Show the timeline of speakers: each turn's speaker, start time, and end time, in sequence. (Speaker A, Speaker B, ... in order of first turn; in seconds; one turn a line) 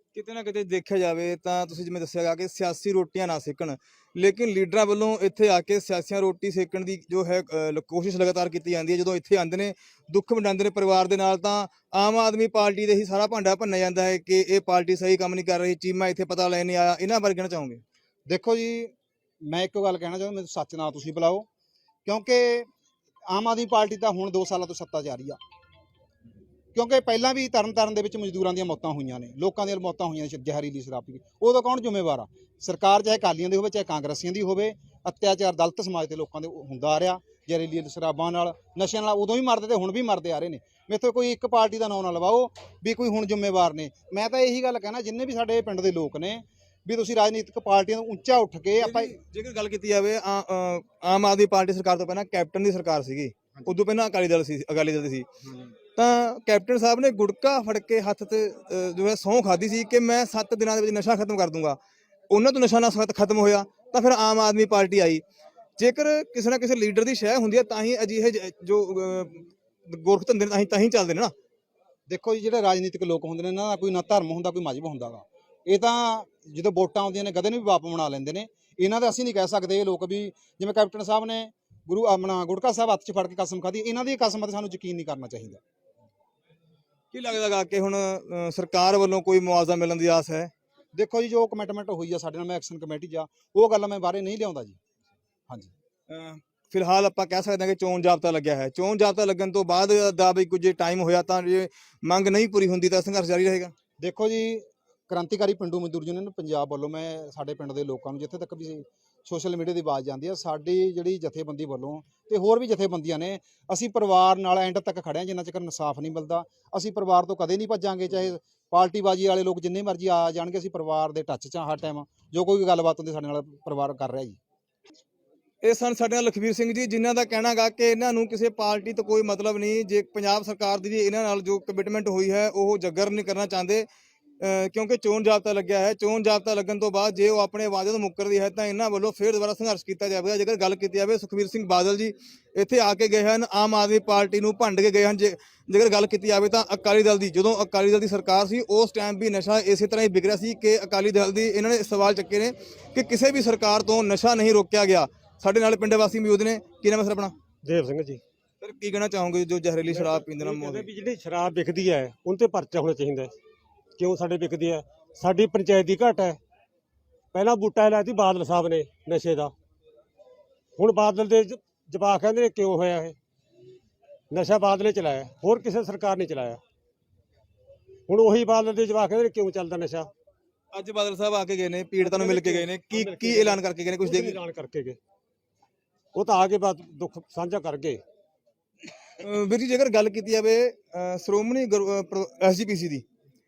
Speaker A: 0.1-17.8
Speaker B: 18.3-21.5
Speaker B: 22.1-22.7
Speaker B: 23.3-25.4
Speaker B: 26.7-49.1
Speaker A: 48.8-55.3
Speaker B: 55.4-55.7
Speaker A: 56.0-61.8
Speaker A: 62.3-65.2
Speaker A: 65.8-71.3
Speaker B: 72.1-85.6
Speaker A: 87.1-90.5
Speaker B: 91.0-94.8
Speaker A: 96.1-103.7
Speaker B: 104.0-124.4
Speaker A: 125.6-133.9
Speaker A: 134.4-157.3
Speaker C: 157.6-158.2
Speaker A: 158.6-160.9
Speaker C: 159.9-163.3
Speaker C: 164.0-166.4
Speaker C: 167.3-169.5
Speaker C: 170.8-173.2
Speaker C: 174.3-176.6
Speaker C: 178.1-180.1
Speaker A: 180.7-184.4
Speaker C: 182.0-185.0
Speaker C: 186.2-188.0
Speaker A: 189.2-193.0